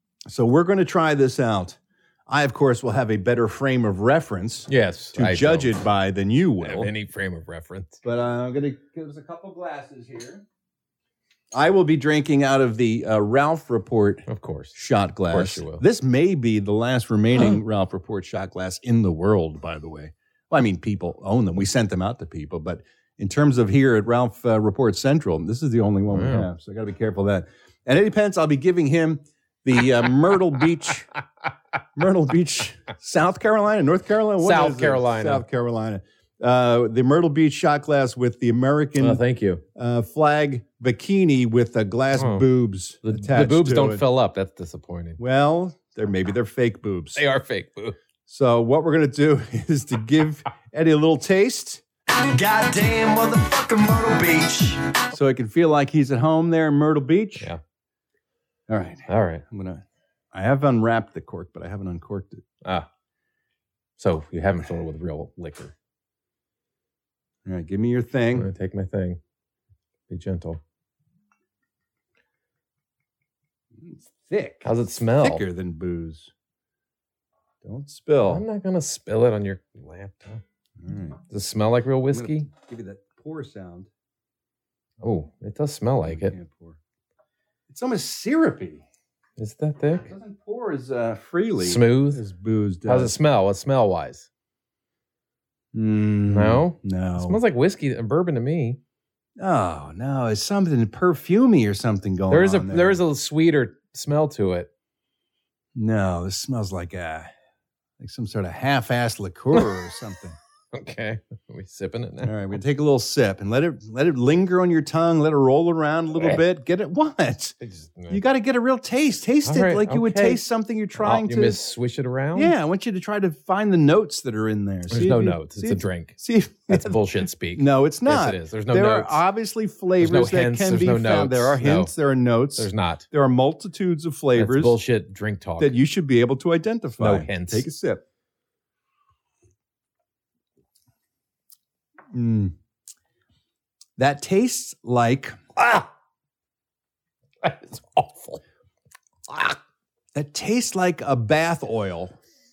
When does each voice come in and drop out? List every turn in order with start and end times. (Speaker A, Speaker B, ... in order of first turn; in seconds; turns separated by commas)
Speaker A: 0.3-6.9, Speaker B: 4.7-5.8, Speaker B: 6.6-8.0, Speaker A: 8.0-10.4, Speaker A: 11.5-31.1, Speaker B: 14.3-15.8, Speaker B: 26.1-26.5, Speaker A: 32.0-39.2, Speaker B: 34.4-35.4, Speaker B: 39.0-39.6, Speaker A: 39.8-44.0, Speaker B: 42.1-42.5, Speaker B: 43.0-45.2, Speaker A: 45.2-47.2, Speaker B: 47.2-48.0, Speaker A: 48.3-51.8, Speaker C: 52.3-54.8, Speaker A: 55.1-57.5, Speaker A: 58.7-62.4, Speaker B: 59.1-59.4, Speaker B: 64.0-65.7, Speaker A: 67.5-68.5, Speaker B: 68.3-69.2, Speaker B: 70.1-70.6, Speaker A: 73.8-76.3, Speaker B: 74.6-75.4, Speaker A: 77.6-78.4, Speaker B: 78.3-80.4, Speaker A: 80.8-81.2, Speaker B: 81.3-82.5, Speaker A: 82.1-83.9, Speaker B: 85.0-86.3, Speaker A: 86.0-86.8, Speaker A: 87.7-88.8, Speaker B: 89.4-90.0, Speaker A: 90.0-93.2, Speaker B: 91.6-92.2, Speaker B: 92.9-94.3, Speaker A: 95.7-97.4, Speaker B: 96.3-98.8, Speaker A: 99.4-103.0, Speaker B: 102.3-104.7, Speaker A: 105.8-107.3, Speaker A: 108.0-110.4, Speaker B: 110.7-112.6, Speaker A: 112.2-117.6, Speaker B: 117.6-118.2, Speaker A: 118.1-121.6, Speaker B: 119.5-120.4, Speaker B: 121.0-122.5, Speaker A: 122.4-134.8, Speaker B: 124.9-129.2, Speaker B: 130.0-131.9, Speaker B: 132.6-133.1, Speaker B: 134.3-135.8, Speaker A: 135.6-138.0, Speaker B: 137.0-137.7, Speaker A: 142.1-142.6, Speaker A: 144.0-145.4, Speaker B: 145.6-145.9, Speaker B: 147.4-148.4, Speaker B: 149.3-149.6, Speaker A: 150.1-152.2